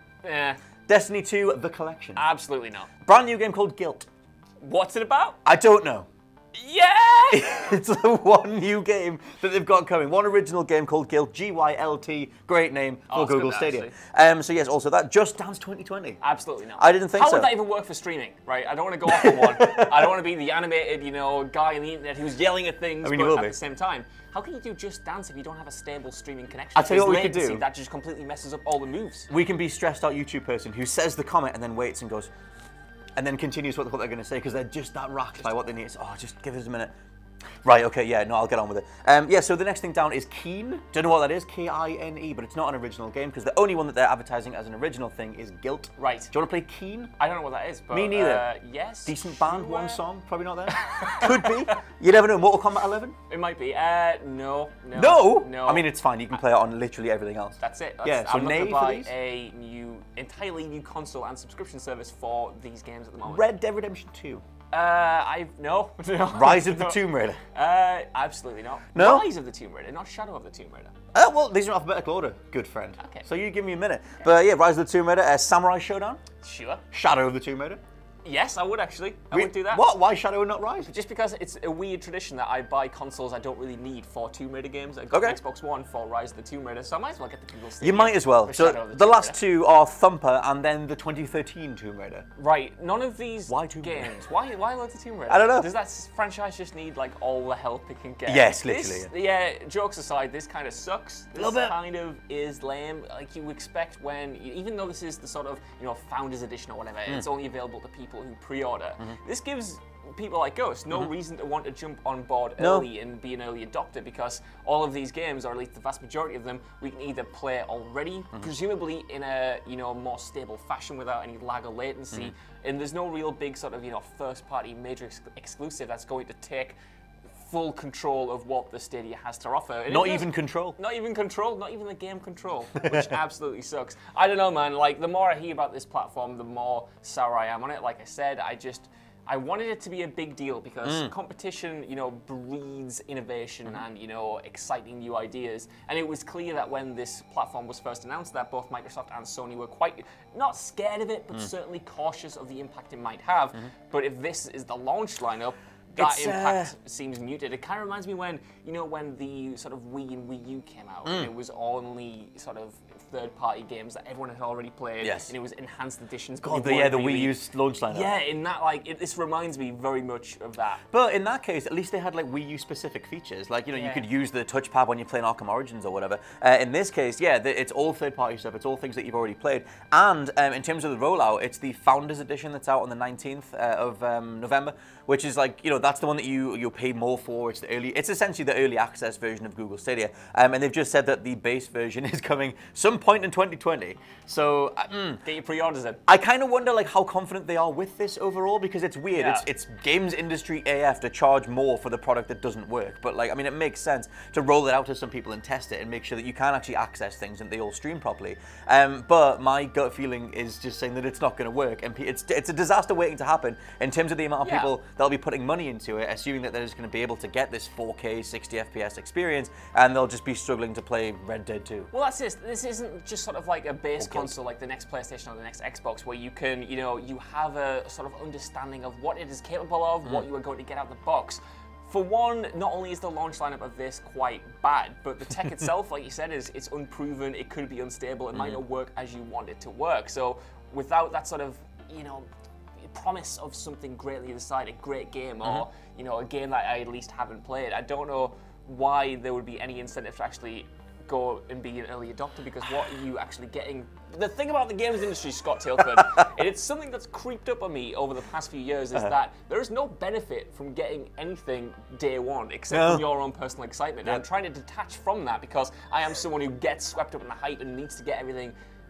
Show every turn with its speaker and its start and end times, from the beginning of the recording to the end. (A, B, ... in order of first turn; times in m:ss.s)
0:00.2-0:00.6 A
0:00.9-0:02.2 B
0:02.2-0:02.9 A
0:03.0-0:04.1 B
0:04.6-0:05.4 A
0:05.4-0:06.1 B
0:06.5-0:07.7 A
0:07.3-0:16.2 B
0:13.1-0:14.0 A
0:16.2-0:29.3 A
0:16.8-0:17.5 B
0:19.1-0:20.1 B
0:23.0-0:23.6 B
0:26.8-0:27.6 B
0:29.3-0:32.3 B
0:33.2-0:36.9 B
0:37.6-0:47.1 B
0:46.0-0:46.3 A
0:47.2-0:50.0 A
0:47.9-0:48.5 B
0:49.1-0:53.2 B
0:50.7-0:51.8 A
0:53.3-0:55.9 A
0:54.9-0:59.1 B
0:57.6-1:03.4 A
1:03.2-1:04.4 B
1:04.7-1:07.0 A
1:06.3-1:07.4 B
1:07.5-1:10.9 A
1:08.9-1:09.3 B
1:11.1-1:16.2 B
1:13.0-1:13.3 A
1:16.4-1:16.8 A
1:16.9-1:17.8 B
1:18.2-1:19.9 A
1:19.3-1:20.9 B
1:20.8-1:29.4 A
1:25.1-1:25.4 B
1:27.8-1:32.3 B
1:32.4-2:06.8 A
1:33.5-1:34.2 B
1:35.3-1:35.7 B
1:38.3-1:39.1 B
1:41.4-1:41.8 B
1:52.6-1:52.9 B
2:07.4-2:50.8 A
2:09.9-2:10.8 B
2:12.8-2:13.1 B
2:20.8-2:21.1 B
2:36.0-2:36.7 B
2:41.0-2:41.3 B
2:45.0-2:45.3 B
2:46.4-2:48.2 B
2:50.9-3:15.2 B
2:53.7-2:54.1 A
3:15.2-3:16.0 A
3:16.1-3:41.9 B
3:19.1-3:19.4 A
3:34.4-3:34.7 A
3:41.9-4:02.3 A
3:44.0-3:44.3 B
3:58.3-3:58.6 B
4:02.8-4:28.5 A
4:22.7-4:23.1 B